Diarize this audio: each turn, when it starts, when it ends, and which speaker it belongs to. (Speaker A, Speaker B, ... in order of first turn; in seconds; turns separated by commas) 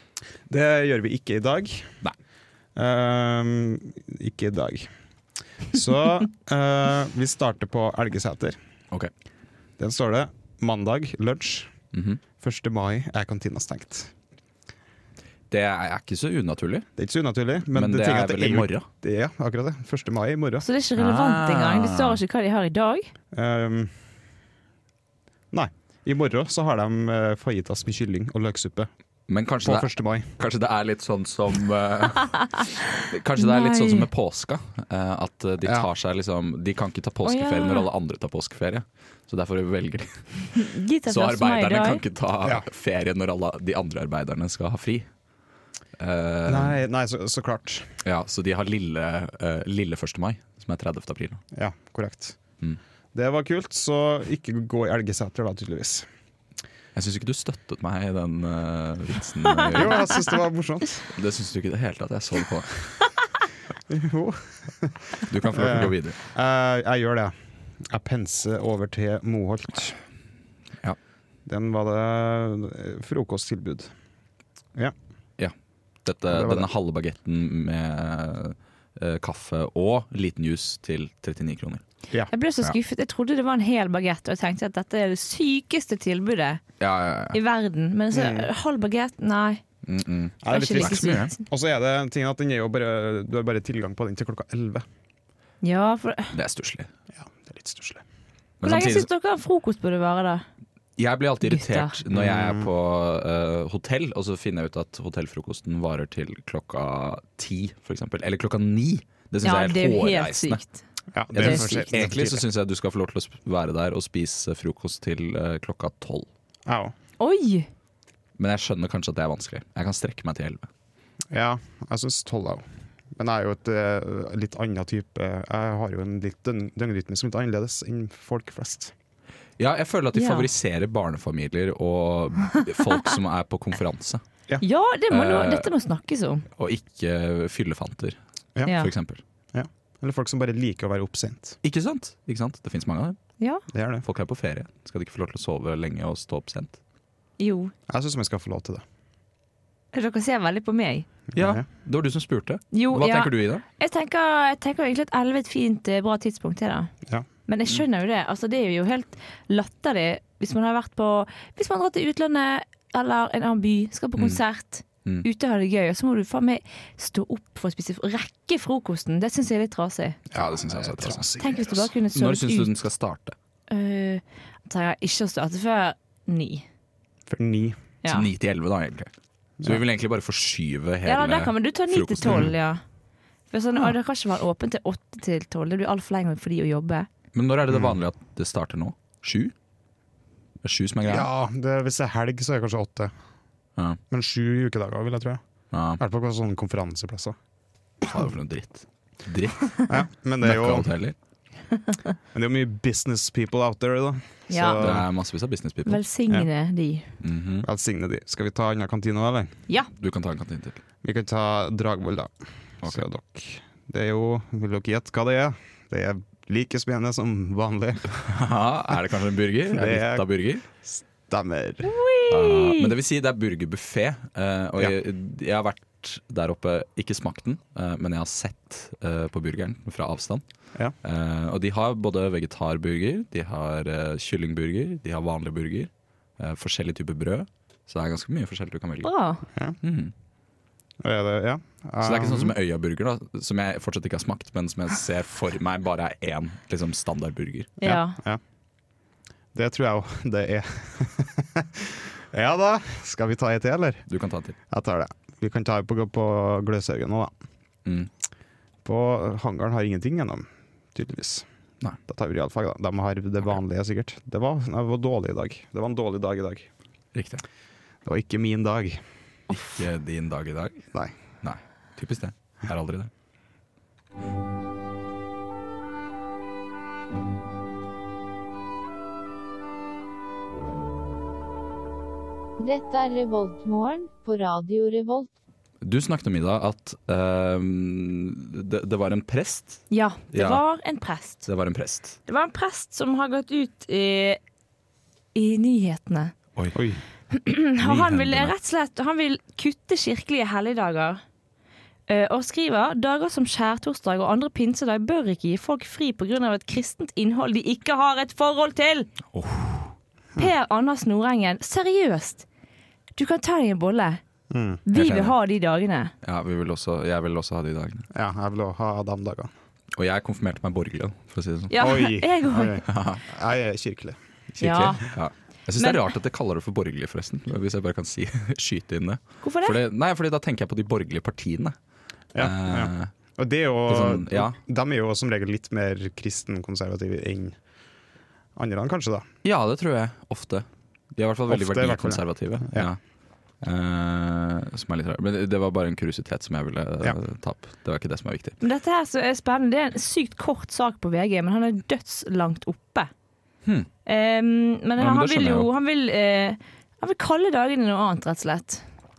Speaker A: 0.5-2.0, Speaker A: 2.8-4.9, Speaker A: 5.7-8.6, Speaker A: 9.8-11.7, Speaker B: 11.9-12.2, Speaker A: 12.4-14.1, Speaker B: 15.5-16.9, Speaker A: 17.0-20.6, Speaker B: 17.7-18.9, Speaker C: 20.6-23.1, Speaker B: 21.0-22.2, Speaker A: 23.3-23.9, Speaker A: 25.5-28.9, Speaker B: 29.3-45.1, Speaker A: 29.6-30.3, Speaker C: 33.4-34.1, Speaker C: 37.2-37.9, Speaker C: 40.5-42.0, Speaker B: 46.0-46.8, Speaker A: 46.5-47.9, Speaker B: 48.0-51.4, Speaker A: 51.5-52.4, Speaker A: 53.1-56.1, Speaker B: 57.0-60.1, Speaker A: 59.7-61.1, Speaker B: 61.1-63.1, Speaker A: 63.9-70.0, Speaker B: 65.2-66.2, Speaker A: 71.5-73.9, Speaker B: 75.4-81.8, Speaker A: 76.3-76.7, Speaker C: 82.3-86.6, Speaker B: 86.8-87.4, Speaker C: 87.3-89.6, Speaker A: 88.1-88.5, Speaker B: 89.9-91.3, Speaker A: 90.4-94.9, Speaker C: 90.5-91.4, Speaker C: 95.6-96.3, Speaker B: 96.3-96.9, Speaker A: 97.1-98.0, Speaker B: 98.6-99.1, Speaker C: 98.6-100.5, Speaker B: 101.0-110.6, Speaker C: 101.4-102.0, Speaker A: 102.1-102.7, Speaker C: 109.4-110.8, Speaker A: 111.1-112.5, Speaker B: 111.3-116.3, Speaker C: 111.4-111.9, Speaker A: 116.7-116.9, Speaker C: 117.2-117.7, Speaker B: 118.4-120.7, Speaker A: 121.3-128.9, Speaker B: 129.6-134.2, Speaker C: 130.1-130.5, Speaker C: 134.6-136.4, Speaker B: 135.1-135.7, Speaker B: 136.6-139.2, Speaker C: 138.6-138.9, Speaker A: 139.5-141.6, Speaker B: 141.6-143.2, Speaker A: 143.7-144.0, Speaker B: 144.0-146.8, Speaker C: 147.4-147.7, Speaker A: 147.9-148.8, Speaker C: 149.9-151.1, Speaker A: 151.3-151.6, Speaker B: 151.3-153.6, Speaker C: 152.7-156.9, Speaker C: 157.5-170.2, Speaker A: 170.3-171.7, Speaker B: 170.3-171.6, Speaker C: 171.4-172.7, Speaker B: 172.1-173.4, Speaker C: 173.7-176.6, Speaker A: 177.3-177.8, Speaker B: 178.0-179.1, Speaker B: 179.6-182.5, Speaker C: 181.0-182.8, Speaker A: 182.2-182.5, Speaker C: 183.5-187.1, Speaker B: 187.3-189.5, Speaker A: 187.7-187.9, Speaker B: 190.6-191.3, Speaker A: 191.0-193.1, Speaker A: 194.1-195.4, Speaker B: 195.7-196.0, Speaker A: 196.0-197.4, Speaker B: 198.1-201.1, Speaker A: 199.9-200.9, Speaker A: 202.3-205.0, Speaker C: 204.5-204.8, Speaker B: 204.8-206.0, Speaker C: 205.9-207.1, Speaker B: 207.2-207.7, Speaker A: 207.6-209.5, Speaker B: 209.9-210.8, Speaker A: 211.0-218.1, Speaker B: 218.2-220.6, Speaker A: 219.7-221.9, Speaker C: 221.8-222.9, Speaker B: 222.3-230.4, Speaker B: 231.0-239.1, Speaker C: 239.0-239.4, Speaker B: 239.8-240.1, Speaker A: 241.0-242.5, Speaker B: 242.0-247.7, Speaker C: 247.8-248.2, Speaker A: 247.8-248.4, Speaker A: 249.5-254.0, Speaker B: 254.1-254.6, Speaker A: 254.7-257.3, Speaker A: 258.8-261.5, Speaker A: 262.1-266.7, Speaker B: 267.1-267.4, Speaker A: 268.0-269.0, Speaker B: 269.5-270.9, Speaker B: 271.4-273.1, Speaker D: 282.6-285.3, Speaker B: 285.8-290.6, Speaker C: 289.9-291.5, Speaker B: 291.4-292.2, Speaker C: 292.3-294.4, Speaker C: 295.4-296.4, Speaker A: 296.7-297.0, Speaker C: 297.3-301.2, Speaker B: 297.8-298.5, Speaker C: 302.1-309.1, Speaker B: 309.3-309.9, Speaker C: 310.4-312.5, Speaker C: 313.2-314.2, Speaker A: 314.5-314.8, Speaker C: 314.9-316.1, Speaker B: 314.9-315.4, Speaker B: 316.2-318.1, Speaker A: 318.1-319.5, Speaker B: 319.9-321.8, Speaker C: 321.7-322.8, Speaker A: 321.8-324.9, Speaker B: 322.9-323.2, Speaker C: 324.6-325.1, Speaker B: 324.6-331.8, Speaker C: 329.4-329.8, Speaker A: 332.3-337.6, Speaker B: 332.4-333.1, Speaker B: 333.9-334.6, Speaker A: 338.6-339.3, Speaker B: 339.4-343.0, Speaker A: 341.5-342.9, Speaker B: 343.6-348.6, Speaker C: 348.6-353.1, Speaker C: 354.1-358.9, Speaker B: 355.0-355.7